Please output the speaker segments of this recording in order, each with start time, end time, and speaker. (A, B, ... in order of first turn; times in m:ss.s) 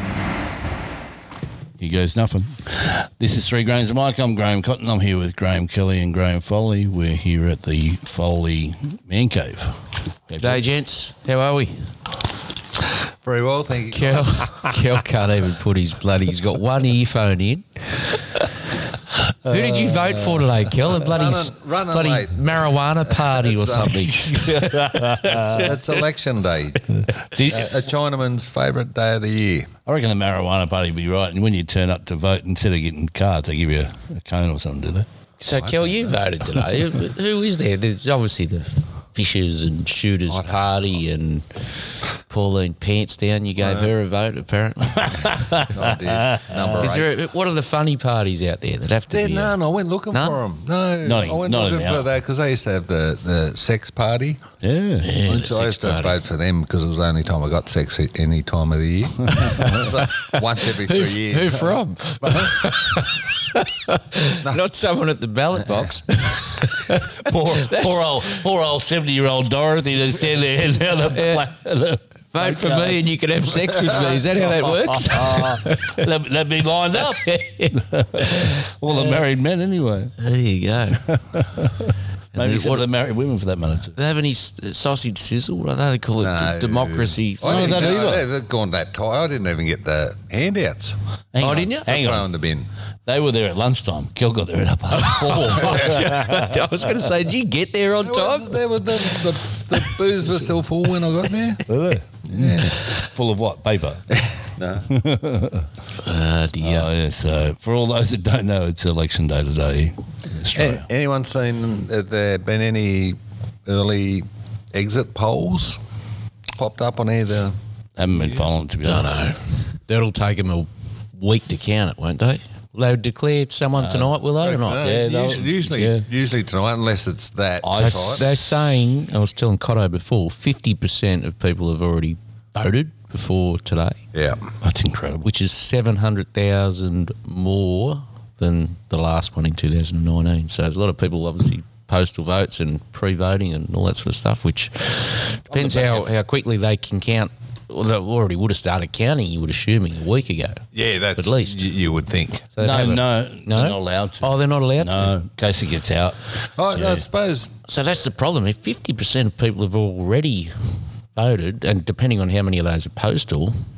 0:01.8-0:10.6 A
0:10.4-0:11.9 B
0:13.2-0:14.8 C
0:13.9-0:18.2 B
0:19.4-0:25.7 B
0:19.4-0:20.5 A
0:21.0-0:24.2 C
0:24.2-0:25.8 A
0:25.4-0:29.7 C
0:27.0-0:27.7 A
0:29.8-0:35.1 A
0:35.4-0:41.6 B
0:35.5-0:36.1 C
0:40.3-0:40.8 C
0:42.3-0:45.4 B
0:43.6-0:43.9 C
0:45.0-0:46.9 A
0:45.6-0:47.2 C
0:46.8-0:49.6 B
0:49.1-0:54.5 C
0:50.1-0:50.4 B
0:51.0-0:52.1 A
0:54.6-0:55.1 A
0:55.0-0:56.2 B
0:55.2-1:03.1 C
0:59.3-1:08.4 B
1:07.0-1:13.1 A
1:11.1-1:11.4 B
1:12.3-1:16.0 B
1:13.9-1:20.1 A
1:17.0-1:19.2 B
1:20.2-1:21.1 B
1:20.9-1:24.0 A
1:22.3-1:22.8 B
1:24.0-1:28.1 B
1:26.2-1:31.0 C
1:27.4-1:28.3 A
1:31.3-1:32.3 A
1:31.4-1:31.9 B
1:31.8-1:32.7 C
1:33.0-1:36.9 A
1:34.9-1:38.6 B
1:35.6-1:35.9 C
1:38.0-1:41.6 C
1:41.6-1:44.0 A
1:42.3-1:42.8 C
1:44.6-1:44.8 C
1:44.8-1:45.7 A
1:46.0-1:46.9 B
1:46.6-1:50.9 A
1:50.5-1:55.8 C
1:56.5-1:57.6 C
1:58.0-1:59.3 A
1:58.2-1:58.4 C
1:58.8-2:04.8 B
2:03.8-2:04.1 A
2:04.4-2:08.3 C
2:04.8-2:06.0 A
2:07.6-2:08.4 A
2:07.8-2:14.0 B
2:14.1-2:14.4 C
2:14.6-2:15.3 A
2:15.2-2:30.6 B
2:25.5-2:26.0 C
2:30.7-2:32.5 C
2:31.1-2:31.7 B
2:32.5-2:35.1 B
2:32.6-2:36.2 A
2:36.6-2:37.5 C
2:36.7-2:37.0 A
2:37.6-2:40.6 B
2:41.1-2:43.6 B